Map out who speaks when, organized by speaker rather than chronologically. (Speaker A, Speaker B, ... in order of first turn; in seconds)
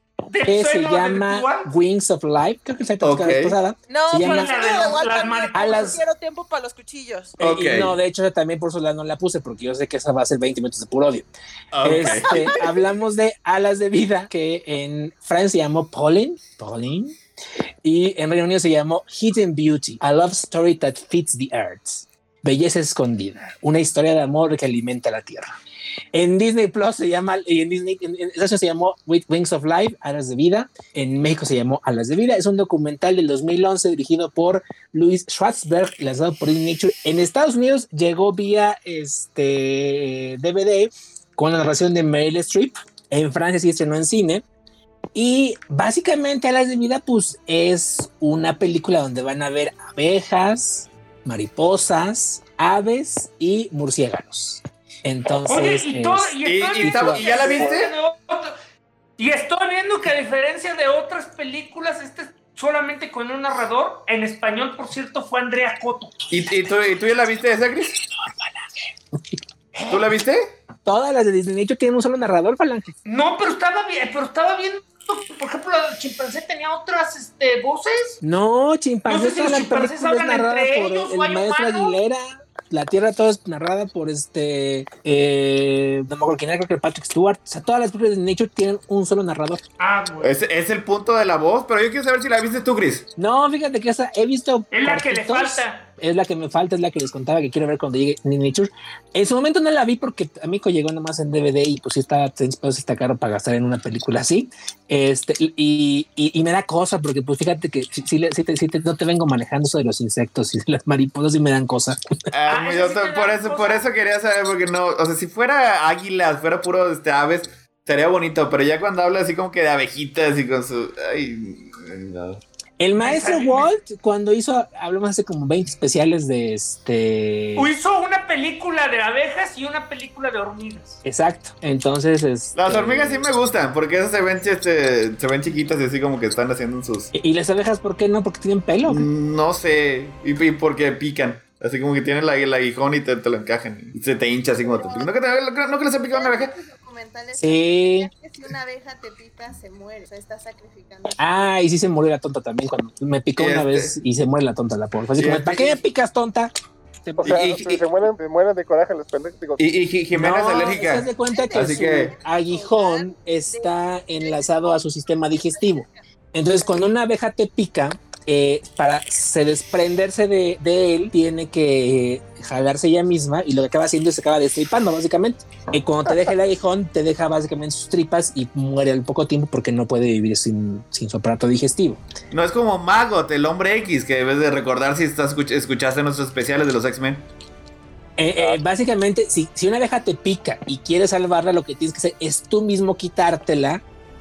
Speaker A: 0.3-1.7, 4.2-5.9, 55.5-58.5, 59.2-66.1, 73.0-78.2, 79.1-82.0, 89.8-90.3, 94.7-95.8, 112.5-113.9, 123.0-123.7, 127.5-131.0
Speaker B: 0.5-4.5, 5.5-6.0, 7.4-11.3, 11.8-17.1, 17.8-25.5, 26.1-44.4, 45.1-57.4, 70.8-72.9, 78.2-89.6, 93.2-112.0, 122.8-127.7, 131.0-133.2, 137.1-139.1, 147.3-148.1, 151.2-156.5, 157.0-157.7, 160.1-182.0, 188.2-193.8
Speaker C: 3.0-3.6, 7.4-8.0, 11.7-12.6, 56.4-57.9, 66.3-68.0, 69.9-70.5, 90.2-93.1, 112.3-122.4, 132.5-137.1, 138.8-146.5, 153.4-153.9, 155.2-155.8, 157.2-157.8, 159.6-162.1, 182.3-187.2
Speaker D: 3.9-7.4, 12.1-12.6
Speaker E: 57.4-57.8, 157.2-159.6
Speaker F: 144.6-145.4, 146.1-151.5, 160.4-166.0, 166.5-166.8